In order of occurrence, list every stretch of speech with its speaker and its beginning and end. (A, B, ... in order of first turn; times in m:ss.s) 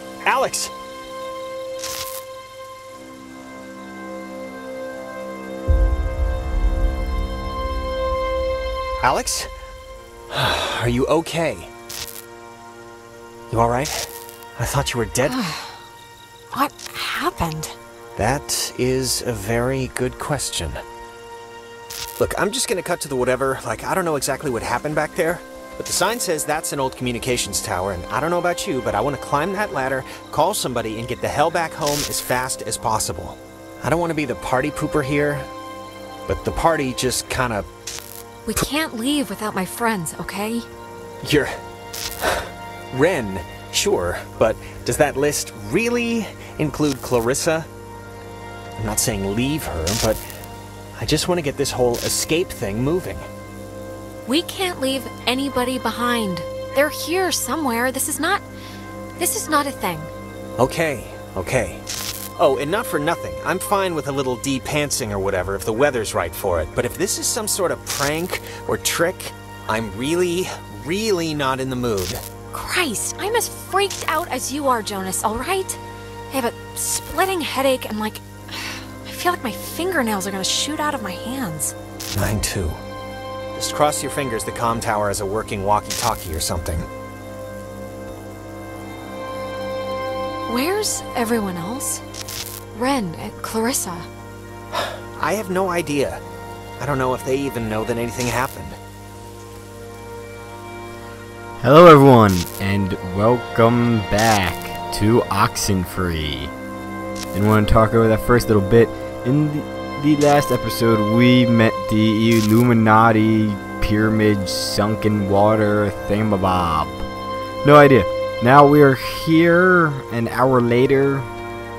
0:00.2-0:00.7 A
0:09.0-0:09.5 A
0:10.3-0:11.7 A
0:13.5-0:15.4 A
0:15.2-0:15.8 B
0:16.5-0:17.7 B
0:18.2-0:20.8 A
0:22.2-0:35.5 A
0:36.3-0:37.7 A
0:38.4-0:40.7 B
0:41.2-0:41.5 A
0:42.2-0:47.7 A
0:48.8-0:50.2 A
0:51.0-0:53.2 A
0:54.2-0:58.4 B
0:59.2-1:00.1 B
1:00.6-1:01.8 A
1:02.4-1:12.2 A
1:12.5-1:15.8 B
1:16.3-1:21.7 B
1:22.1-1:22.8 A
1:23.5-1:26.9 A
1:30.5-1:32.0 B
1:32.7-1:34.1 B
1:34.7-1:36.2 A
1:36.8-1:38.8 A
1:41.6-1:46.5 C
1:47.3-1:57.0 C
1:57.6-2:01.3 C